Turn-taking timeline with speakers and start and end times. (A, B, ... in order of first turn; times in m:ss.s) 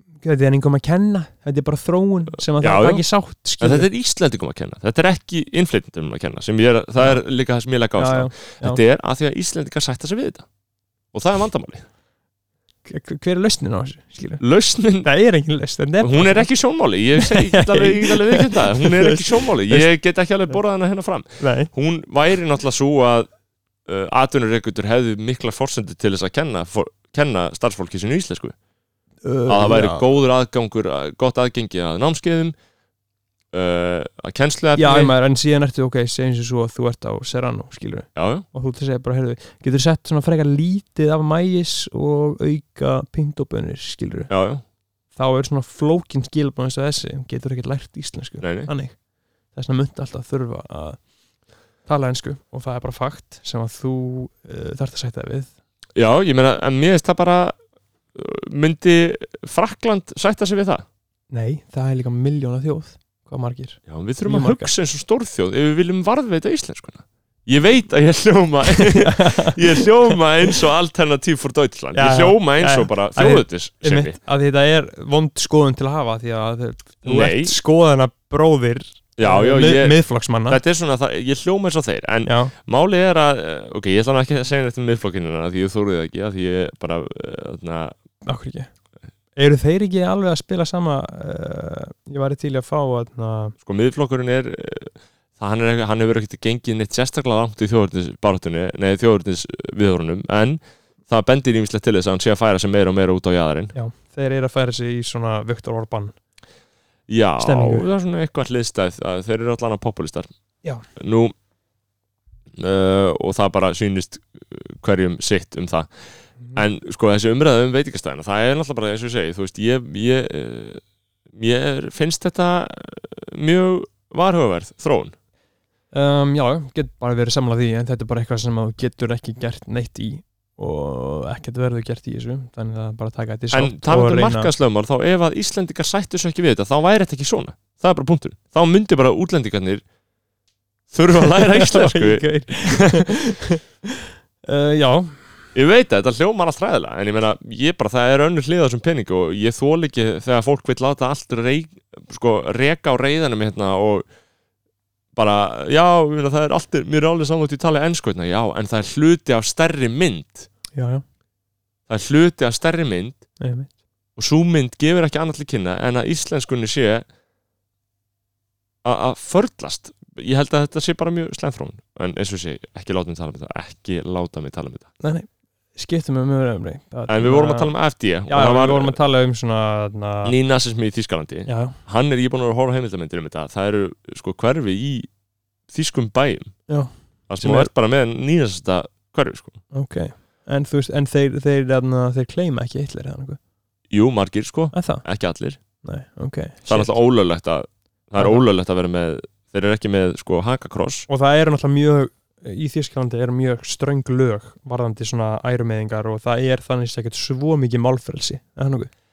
0:00.2-0:03.9 A
0:02.6-0:03.0 B
0:03.6-0:10.5 B
0:07.0-0:07.2 A
0:08.0-0:08.8 A
0:11.1-0:11.9 B
0:12.8-0:14.4 A
0:14.4-0:15.1 B
0:15.0-0:16.5 A
0:16.0-0:23.3 B
0:17.2-0:19.9 A
0:21.4-0:21.7 A
0:23.8-0:28.6 B
0:29.2-0:30.0 A
0:29.5-0:32.6 B
0:33.5-0:35.2 B
0:34.8-0:44.3 A
0:38.2-0:38.5 B
0:44.3-0:44.6 B
0:45.1-0:49.0 A
0:48.4-0:48.7 B
0:49.5-0:51.1 A
0:51.8-0:55.5 A
0:56.0-0:57.6 B
0:58.1-1:00.8 B
1:01.3-1:04.7 A
1:03.9-1:14.2 B
1:08.7-1:10.5 A
1:11.9-1:20.6 A
1:17.0-1:17.6 B
1:19.2-1:27.9 B
1:22.2-1:22.5 A
1:28.2-1:28.7 A
1:29.4-1:33.6 A
1:33.6-1:43.7 B
1:43.7-1:46.2 A
1:47.1-1:50.3 B
1:47.4-1:47.8 A
1:51.0-1:51.3 B
1:52.6-2:00.8 B
2:01.3-2:05.2 B
2:05.9-2:14.5 A
2:13.5-2:19.8 B
2:20.9-2:23.1 B
2:21.2-2:25.3 A
2:25.5-2:34.1 B
2:35.1-2:40.5 B
2:40.7-2:41.0 A
2:41.9-2:43.2 B
2:43.4-2:43.7 A
2:44.2-2:47.0 B
2:48.8-2:54.9 B
2:55.0-3:00.4 A
2:57.1-2:59.0 B
3:00.2-3:05.1 B
3:01.5-3:01.8 A
3:05.7-3:06.6 B
3:06.7-3:07.7 A
3:07.3-3:09.6 B
3:09.7-3:13.4 A
3:13.9-3:15.6 B
3:14.7-3:15.1 A
3:15.8-3:17.0 A
3:16.6-3:21.1 B
3:18.2-3:18.5 A
3:21.1-3:28.9 A